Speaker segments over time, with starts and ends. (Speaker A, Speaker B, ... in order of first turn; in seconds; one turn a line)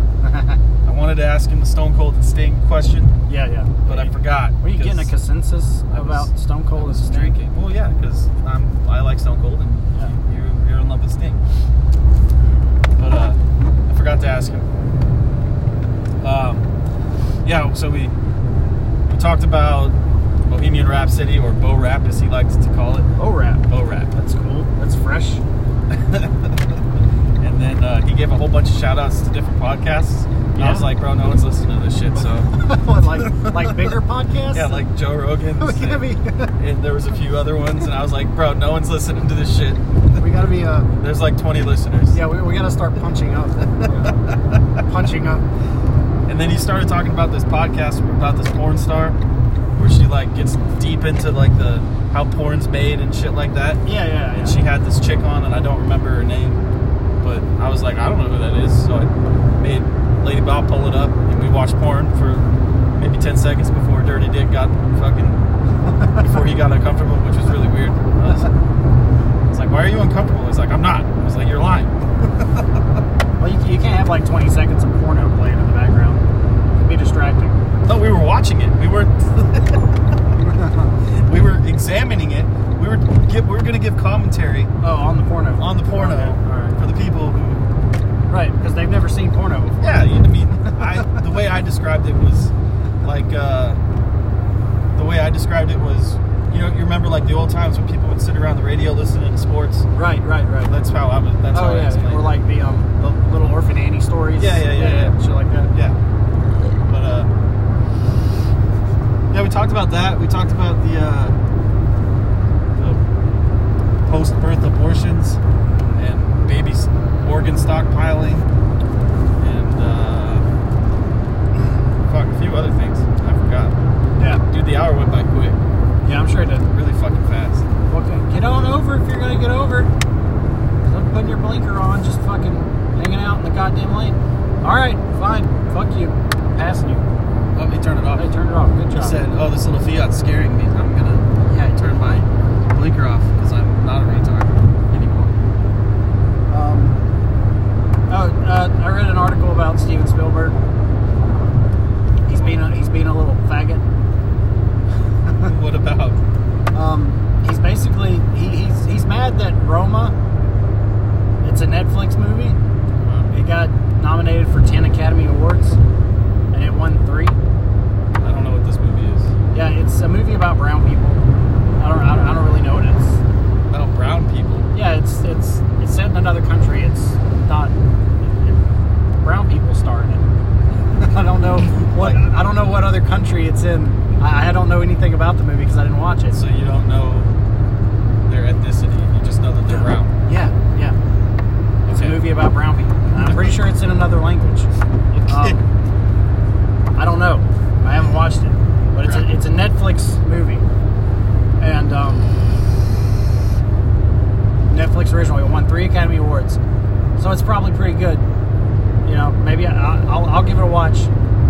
Speaker A: 0.2-0.6
Speaker B: 0.8-3.1
Speaker A: 3.3-7.5
Speaker B: 3.9-5.1
Speaker B: 5.9-11.4
Speaker B: 13.0-14.7
Speaker B: 16.2-16.7
Speaker B: 17.4-18.1
Speaker B: 19.1-23.1
Speaker A: 23.2-25.4
Speaker B: 23.7-24.1
Speaker B: 25.9-26.8
Speaker B: 27.4-33.9
Speaker A: 30.5-30.9
Speaker A: 32.5-34.8
Speaker B: 34.5-39.8
Speaker A: 35.5-36.5
Speaker A: 40.2-40.9
Speaker B: 41.0-42.2
Speaker A: 42.1-44.2
Speaker B: 43.8-44.6
Speaker A: 44.8-45.4
Speaker B: 46.2-49.2
Speaker B: 49.7-53.8
Speaker A: 53.8-54.6
Speaker B: 54.4-56.6
Speaker B: 57.2-68.5
Speaker B: 69.5-72.0
Speaker A: 73.4-77.6
Speaker B: 77.8-80.0
Speaker A: 80.4-81.0
Speaker B: 81.0-84.7
Speaker A: 84.8-86.8
Speaker B: 85.6-87.6
Speaker A: 88.3-91.2
Speaker B: 89.8-93.8
Speaker B: 94.9-99.9
Speaker A: 99.9-100.7
Speaker B: 100.7-102.4
Speaker A: 101.5-105.7
Speaker B: 104.4-105.1
Speaker B: 106.8-107.3
Speaker B: 109.3-111.3
Speaker B: 112.7-113.0
Speaker B: 114.0-118.5
Speaker B: 119.4-120.5
Speaker B: 122.0-123.8
Speaker A: 124.2-124.4
Speaker B: 124.5-125.6
Speaker A: 126.0-126.7
Speaker B: 126.7-127.7
Speaker A: 127.9-129.9
Speaker A: 130.8-137.1
Speaker B: 137.5-138.3
Speaker A: 138.1-139.2
Speaker B: 138.9-145.3
Speaker A: 141.4-142.2
Speaker A: 146.5-147.0
Speaker A: 148.1-150.6
Speaker A: 152.2-153.8
Speaker B: 155.4-156.2
Speaker A: 156.7-160.1
Speaker A: 161.4-162.6
Speaker B: 163.0-163.3
Speaker A: 163.3-165.8
Speaker A: 166.5-167.4
Speaker B: 168.2-169.3
Speaker A: 169.5-171.2
Speaker A: 171.8-173.2
Speaker B: 173.7-174.7
Speaker A: 174.7-178.6
Speaker A: 179.2-180.3
Speaker A: 180.9-186.4
Speaker B: 181.7-182.3
Speaker B: 186.3-187.3
Speaker B: 188.2-190.1
Speaker A: 189.7-191.0
Speaker B: 191.8-192.2
Speaker A: 191.9-194.7
Speaker B: 193.1-193.6
Speaker B: 195.1-195.6
Speaker A: 195.3-195.6
Speaker A: 196.9-200.7
Speaker B: 199.0-199.3
Speaker A: 201.6-202.3
Speaker A: 204.7-206.6
Speaker A: 207.2-208.2
Speaker A: 209.0-211.1